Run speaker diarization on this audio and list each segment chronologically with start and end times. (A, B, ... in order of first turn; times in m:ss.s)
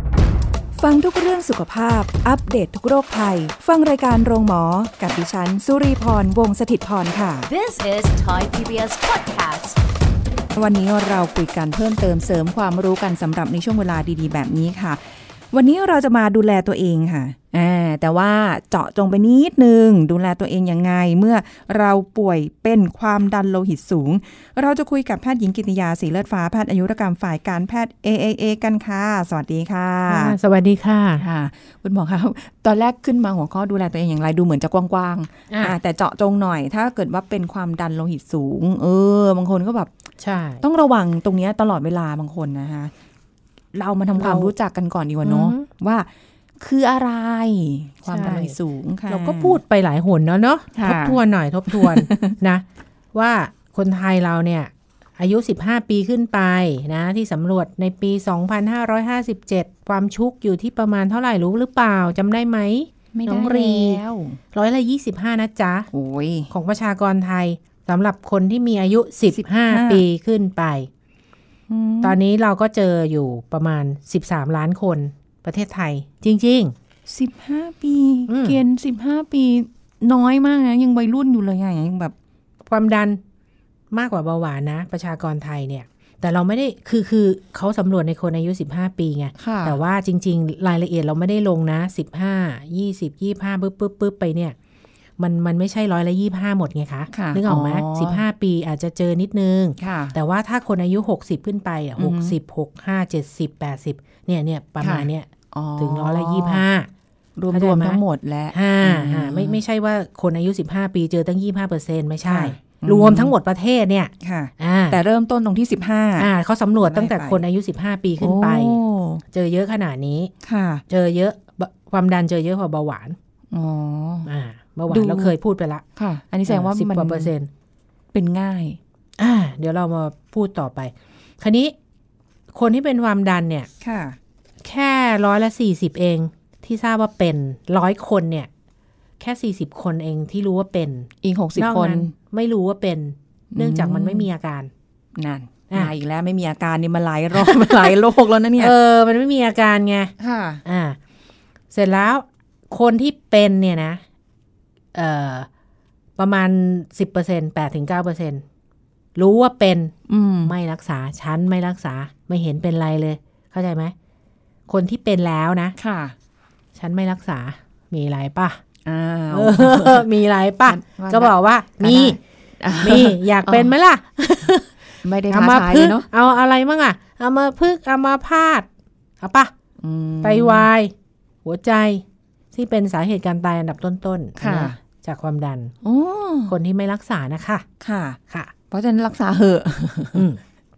0:00.8-0:07.5 A
0:07.5-0:09.8 B
0:10.5-0:30.4 A
0:30.1-0:31.2 C
0:31.2-0:39.9 A
0:35.5-0:35.7 C
0:40.2-0:40.6 C
0:40.6-0:42.9 A
0:43.7-0:46.1 A
0:44.2-0:44.5 C
0:45.2-0:45.6 C
0:46.6-0:49.6 A
0:48.0-0:48.6 C
0:49.1-1:04.0 C
0:50.7-0:51.2 A
0:51.7-0:52.4 A
1:03.1-1:04.4 A
1:04.5-1:05.9 C
1:05.9-1:06.5 A
1:06.5-1:10.9 C
1:09.3-1:10.0 A
1:11.7-1:12.2 A
1:12.0-1:16.7 C
1:17.1-1:22.1 A
1:18.3-1:18.6 C
1:22.6-1:23.2 C
1:23.9-1:34.5 C
1:29.4-1:29.8 A
1:35.2-1:46.9 C
1:37.1-1:38.2 A
1:39.8-1:40.2 A
1:42.0-1:42.3 A
1:44.8-1:46.6 A
1:47.4-1:49.6 A
1:47.5-1:48.0 C
1:48.5-1:55.0 C
1:52.2-1:53.3 A
1:54.2-1:56.3 A
1:56.2-2:00.3 C
1:56.8-1:57.4 A
1:58.2-1:59.2 A
2:00.4-2:00.8 A
2:00.9-2:03.2 C
2:03.5-2:04.3 A
2:04.2-2:05.8 C
2:04.9-2:05.4 A
2:06.0-2:07.3 A
2:06.5-2:07.5 C
2:08.1-2:08.8 A
2:09.2-2:11.7 C
2:12.5-2:13.7 C
2:13.8-2:14.2 A
2:14.6-2:18.5 C
2:19.2-2:24.7 C
2:21.2-2:22.1 A
2:23.5-2:24.3 A
2:25.2-2:28.7 A
2:27.3-2:28.0 C
2:28.6-2:30.1 C
2:30.2-2:30.6 A
2:30.6-2:31.0 C
2:31.7-2:34.0 C
2:34.9-2:35.5 C
2:36.2-2:38.4 C
2:39.2-2:39.9 C
2:40.1-2:40.5 A
2:40.4-2:43.9 C
2:44.7-2:45.7 C
2:45.8-2:46.1 A
2:46.7-2:48.6 C
2:48.8-2:50.1 A
2:49.3-2:52.2 C
2:50.6-2:53.7 A
2:52.8-2:54.7 C
2:55.0-2:56.0 A
2:55.3-2:58.7 C
2:59.2-2:59.5 C
2:59.8-3:00.7 A
3:00.2-3:05.7 C
3:04.4-3:04.8 A
3:05.8-3:06.5 A
3:06.5-3:07.6 C
3:07.8-3:08.2 A
3:08.7-3:10.2 A
3:10.1-3:10.4 C